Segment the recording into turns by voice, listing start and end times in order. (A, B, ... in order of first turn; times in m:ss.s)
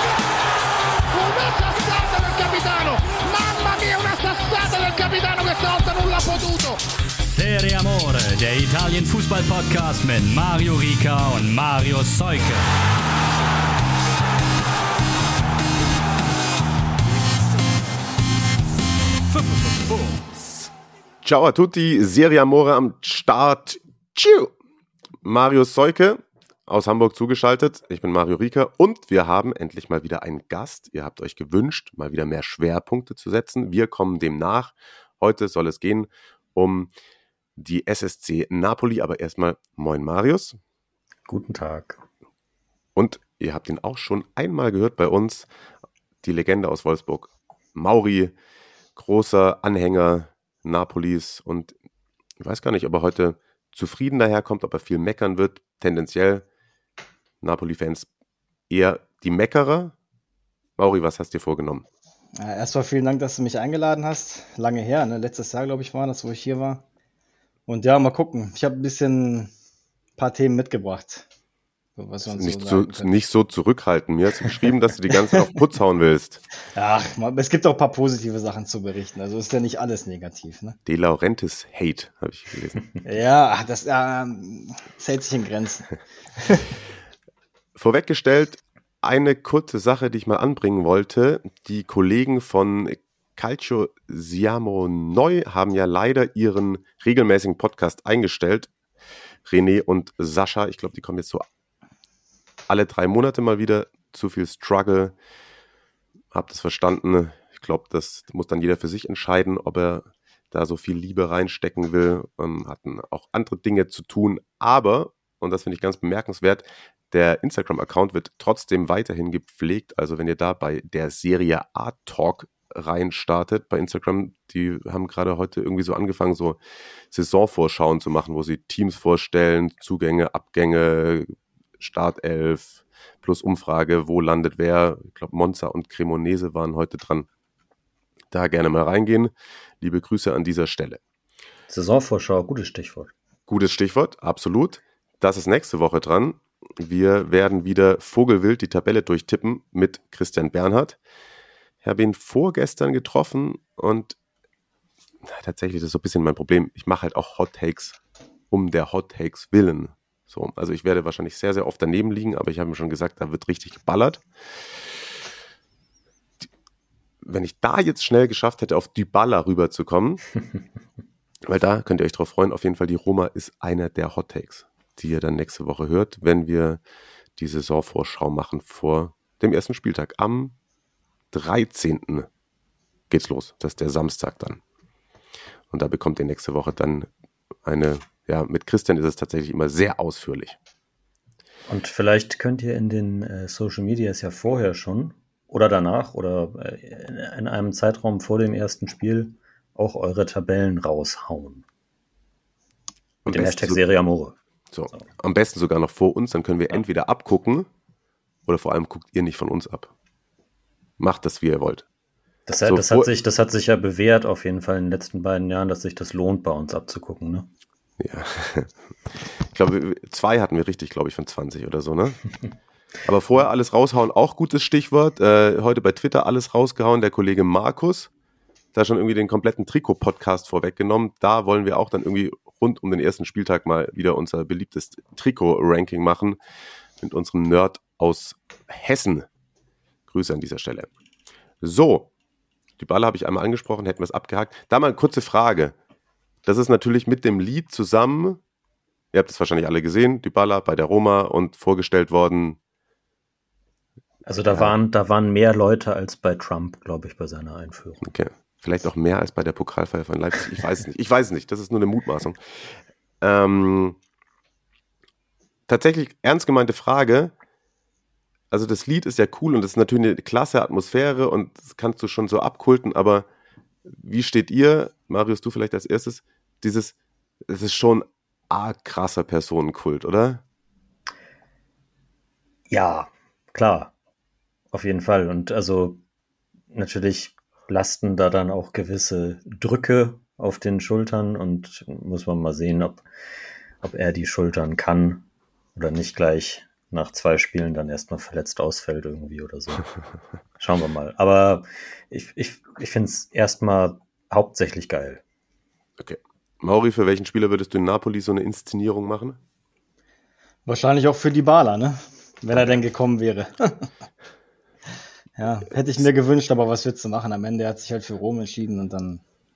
0:01.1-0:06.8 A
0:07.2-0:12.6 B
0:19.3-0:20.7 B
0:21.2-0:24.5 C
0:25.2-0:36.9 C
0:37.6-0:40.6 C
0:41.3-0:42.0 D
0:43.0-0:45.5 C
0:46.2-0:48.3 C
0:49.0-0:51.7 C
0:52.4-0:56.4 C
0:57.4-0:58.1 C
0:58.7-0:59.9 C
1:00.8-1:01.8 C
1:02.4-1:06.8 E
1:07.7-1:09.5 E
1:10.2-1:11.2 E
1:12.0-1:13.1 E
1:12.3-1:16.4 C
1:16.7-1:20.8 E
1:20.8-1:23.0 C
1:23.0-1:26.6 E
1:27.8-1:38.7 C
1:39.4-1:41.4 C
1:42.7-1:45.1 C
1:46.3-2:06.6 C
2:07.1-2:17.3 C
2:18.3-2:21.0 C
2:21.7-2:23.1 D
2:23.5-2:31.0 C
2:31.8-2:34.2 C
2:35.2-2:38.0 C
2:38.5-2:44.2 C
2:47.2-2:50.2 C
2:51.4-2:56.8 C
2:57.4-3:00.5 C
3:01.3-3:02.3 C
3:03.1-3:04.6 C
3:05.7-3:07.1 C
3:07.6-3:10.6 C
3:11.7-3:21.6 D
3:23.2-3:23.8 C
3:23.2-3:24.4 D
3:24.7-3:27.7 C
3:28.4-3:29.9 C
3:31.0-3:31.8 C
3:32.5-3:37.5 D
3:32.6-3:33.1 C
3:38.0-3:42.2 C
3:43.0-3:48.1 C
3:48.7-3:56.4 C
3:57.0-3:59.2 C
4:00.1-4:00.9 C
4:01.6-4:02.1 C
4:02.8-4:05.7 C
4:06.4-4:08.4 C
4:09.1-4:12.6 C
4:14.2-4:18.1 D
4:18.0-4:22.4 C
4:23.2-4:24.0 C
4:25.7-4:27.3 C
4:28.5-4:33.2 C
4:33.9-4:36.9 C
4:37.5-4:40.4 C
4:42.7-4:43.9 D
4:44.7-4:46.0 D
4:46.7-4:53.0 D
4:53.8-4:55.2 D
4:55.8-4:59.9 D
5:00.6-5:05.2 D
5:06.0-5:09.4 C
5:10.6-5:13.9 E
5:15.4-5:19.2 E